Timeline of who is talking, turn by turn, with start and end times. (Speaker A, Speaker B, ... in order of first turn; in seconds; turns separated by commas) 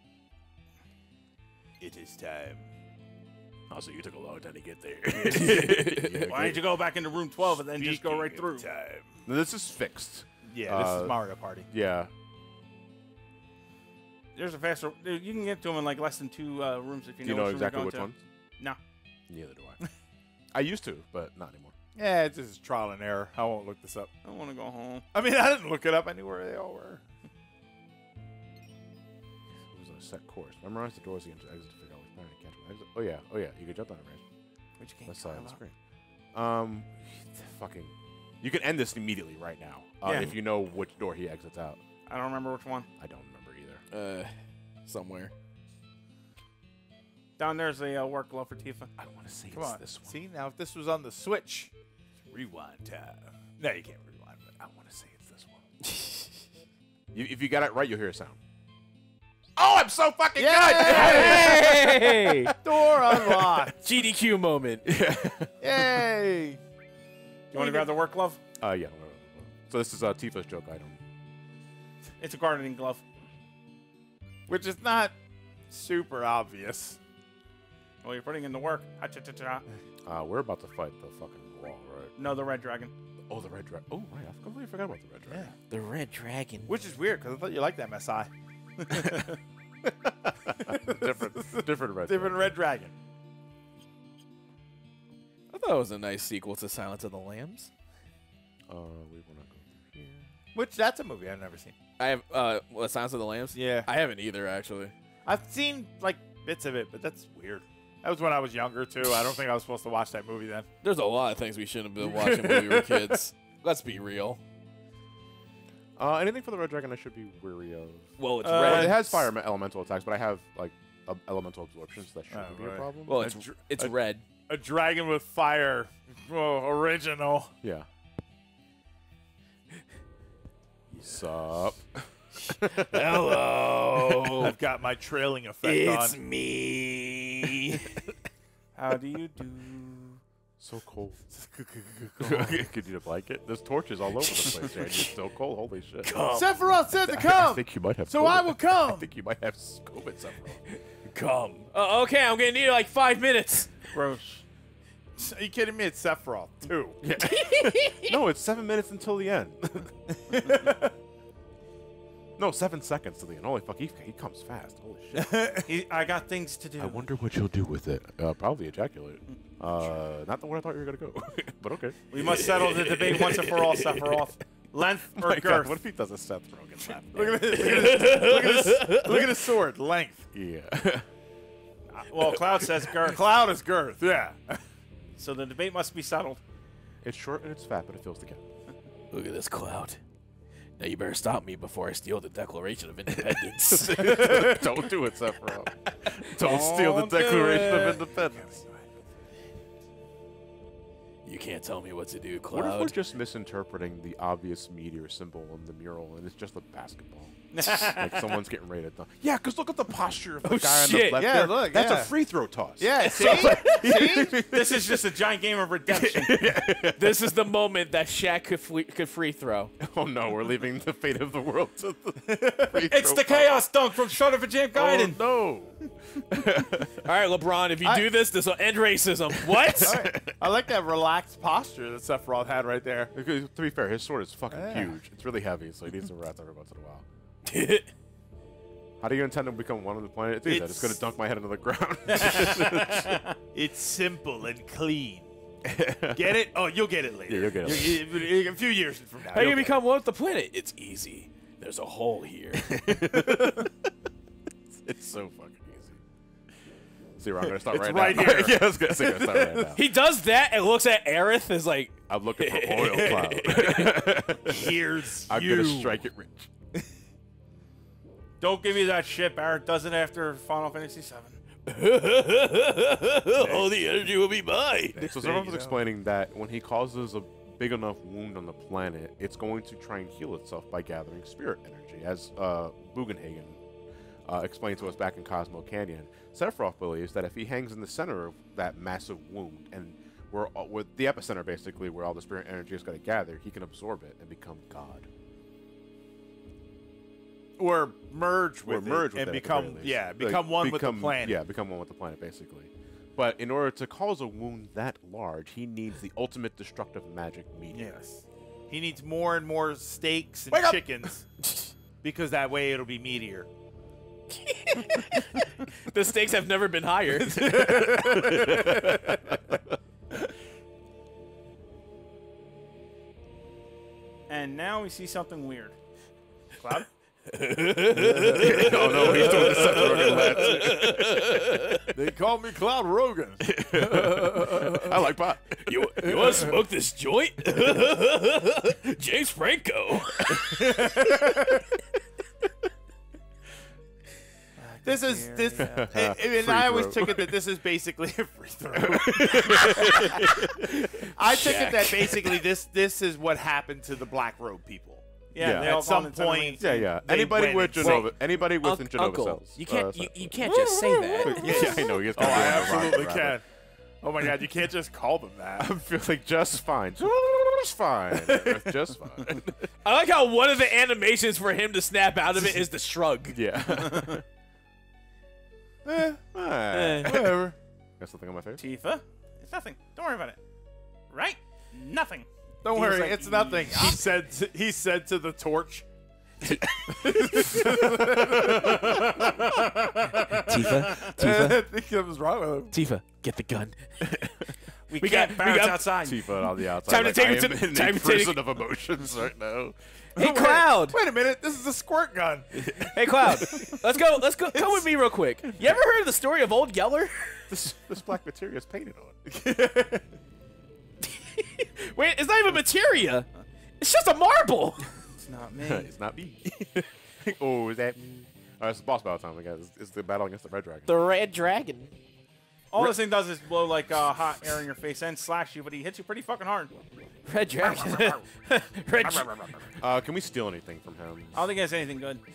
Speaker A: 1.8-2.7, Speaker B: 3.7-6.7, Speaker C: 5.2-6.3, Speaker D: 6.2-8.7, Speaker A: 7.4-9.2, Speaker B: 9.2-11.2, Speaker A: 10.4-11.7, Speaker B: 11.7-12.1, Speaker D: 14.3-18.8, Speaker B: 17.2-18.2, Speaker B: 19.3-19.8, Speaker B: 20.5-21.7, Speaker A: 21.9-24.1, Speaker D: 24.2-25.0, Speaker A: 25.1-27.0, Speaker B: 29.7-34.2, Speaker D: 34.8-35.6, Speaker B: 35.1-35.7, Speaker B: 36.3-41.8, Speaker D: 40.0-40.3, Speaker D: 42.1-42.9, Speaker B: 43.0-43.8, Speaker C: 43.9-44.3, Speaker C: 44.9-45.3, Speaker D: 47.4-48.9, Speaker B: 49.0-50.2, Speaker A: 49.5-51.7, Speaker A: 52.3-55.5, Speaker C: 55.8-56.3, Speaker B: 57.1-58.4, Speaker B: 59.5-62.5, Speaker A: 60.4-61.8, Speaker C: 60.8-62.5, Speaker A: 62.5-63.8, Speaker B: 63.1-63.6, Speaker C: 63.7-64.8, Speaker B: 64.8-66.1, Speaker A: 65.6-66.6, Speaker D: 67.5-68.4, Speaker A: 67.5-67.9, Speaker B: 68.6-71.0, Speaker D: 72.2-73.0, Speaker A: 74.5-75.1, Speaker A: 75.7-77.0, Speaker D: 78.0-79.6, Speaker B: 80.0-82.3, Speaker D: 82.2-82.9, Speaker B: 83.3-85.5, Speaker A: 85.3-85.5, Speaker C: 85.7-86.8, Speaker A: 86.7-88.3, Speaker B: 88.9-89.2, Speaker D: 88.9-89.3, Speaker B: 89.8-92.6, Speaker A: 90.7-92.9, Speaker C: 95.5-97.7, Speaker B: 98.7-100.3, Speaker A: 100.5-101.7, Speaker C: 102.0-104.9, Speaker A: 103.5-103.9, Speaker A: 105.2-110.7, Speaker C: 110.8-114.4, Speaker B: 112.1-113.2, Speaker B: 116.0-123.2, Speaker C: 118.2-119.2, Speaker D: 118.4-119.0, Speaker A: 122.3-123.9, Speaker C: 123.1-124.2, Speaker A: 124.5-127.5, Speaker B: 127.6-127.9, Speaker A: 130.9-131.2, Speaker B: 131.0-133.3, Speaker C: 132.5-134.6, Speaker A: 134.3-136.2, Speaker C: 135.6-138.0, Speaker D: 138.7-140.2, Speaker B: 140.6-141.2, Speaker A: 141.3-142.6, Speaker B: 142.2-146.1, Speaker C: 144.4-145.1, Speaker C: 146.0-146.7, Speaker A: 146.3-149.1, Speaker B: 147.0-150.6, Speaker C: 151.2-153.8, Speaker D: 153.9-154.4, Speaker A: 155.2-157.0, Speaker B: 157.0-159.9, Speaker C: 157.2-158.2, Speaker A: 160.3-160.9, Speaker B: 162.4-165.4, Speaker A: 165.1-165.7, Speaker D: 165.7-167.1, Speaker B: 166.8-172.0, Speaker D: 172.1-175.8, Speaker C: 172.2-174.2, Speaker B: 175.1-177.8, Speaker A: 176.8-180.2, Speaker C: 177.5-179.3, Speaker B: 180.3-181.1, Speaker D: 181.9-183.2, Speaker A: 183.0-184.6, Speaker D: 185.2-186.4, Speaker B: 187.0-188.4, Speaker C: 189.1-190.0, Speaker C: 190.8-194.8, Speaker B: 193.1-198.6, Speaker D: 196.4-198.0, Speaker A: 198.2-198.9, Speaker C: 201.2-202.9, Speaker B: 202.5-215.0, Speaker D: 207.5-208.4, Speaker C: 210.4-211.3, Speaker A: 211.1-212.1, Speaker A: 212.8-214.3, Speaker C: 213.2-213.8, Speaker D: 214.4-216.4, Speaker B: 215.9-217.2, Speaker C: 216.8-219.7, Speaker B: 219.8-223.6, Speaker D: 222.9-225.2, Speaker B: 224.7-227.0, Speaker C: 227.0-230.1, Speaker A: 227.8-228.1, Speaker B: 229.4-230.4, Speaker A: 229.8-233.1, Speaker B: 233.1-237.0, Speaker A: 234.5-235.0, Speaker C: 237.4-237.9, Speaker B: 239.0-243.2, Speaker A: 240.4-241.0, Speaker D: 242.1-243.3, Speaker A: 243.5-245.3, Speaker B: 245.6-246.3, Speaker A: 246.1-249.8, Speaker B: 247.3-248.1, Speaker C: 249.3-253.5, Speaker B: 252.6-253.7, Speaker B: 254.7-256.0, Speaker B: 257.2-259.8, Speaker A: 257.4-259.3, Speaker C: 258.0-258.5, Speaker C: 259.3-264.5, Speaker B: 262.1-266.5, Speaker A: 264.4-266.0, Speaker D: 268.4-271.4, Speaker C: 271.6-275.2, Speaker A: 273.3-273.8, Speaker B: 274.9-283.6, Speaker A: 275.2-275.8, Speaker B: 284.3-295.1, Speaker A: 297.6-301.4, Speaker B: 298.6-308.0, Speaker A: 307.7-311.3, Speaker C: 311.4-311.7, Speaker A: 312.0-313.5, Speaker C: 314.3-318.2, Speaker A: 317.2-319.2, Speaker B: 317.5-319.6, Speaker D: 324.3-325.7, Speaker D: 326.5-326.9, Speaker C: 327.3-331.9, Speaker A: 327.9-331.2, Speaker B: 328.4-331.0, Speaker A: 331.9-334.7, Speaker B: 333.4-336.5, Speaker C: 334.6-334.9, Speaker C: 335.6-341.5, Speaker A: 336.1-336.5, Speaker A: 340.7-341.2, Speaker D: 344.6-345.9, Speaker A: 344.8-358.1, Speaker B: 345.6-347.3, Speaker B: 348.8-351.1, Speaker C: 349.8-350.2, Speaker C: 351.2-352.4, Speaker D: 355.3-356.8, Speaker B: 355.4-355.8, Speaker B: 356.6-360.7, Speaker C: 357.8-362.6, Speaker B: 361.2-363.4, Speaker A: 361.2-363.4, Speaker A: 364.0-365.7, Speaker B: 365.6-369.7, Speaker C: 368.1-368.7, Speaker C: 369.8-373.4, Speaker B: 373.3-374.2, Speaker D: 373.9-374.2, Speaker A: 375.8-376.2, Speaker B: 376.2-378.6, Speaker D: 376.7-377.2, Speaker A: 377.0-377.5, Speaker D: 378.6-380.4, Speaker D: 381.1-384.0, Speaker A: 382.6-385.8, Speaker B: 386.4-389.5, Speaker A: 386.4-389.6, Speaker D: 388.9-390.9, Speaker C: 390.3-391.6, Speaker A: 390.9-392.8, Speaker C: 392.7-394.2, Speaker B: 394.1-394.4, Speaker D: 394.9-396.2, Speaker C: 395.0-395.9, Speaker B: 396.0-399.8, Speaker C: 396.8-398.4, Speaker C: 400.1-401.0, Speaker A: 400.1-402.8, Speaker B: 402.6-403.7, Speaker C: 402.8-407.4, Speaker B: 407.5-409.8, Speaker C: 411.0-413.3, Speaker C: 413.8-414.9, Speaker D: 415.2-415.9, Speaker B: 415.6-418.0, Speaker B: 418.6-420.9, Speaker C: 420.9-421.9, Speaker D: 422.7-426.7, Speaker C: 427.2-429.7, Speaker D: 427.6-428.2, Speaker D: 429.0-429.4, Speaker B: 429.8-431.4, Speaker D: 431.3-432.2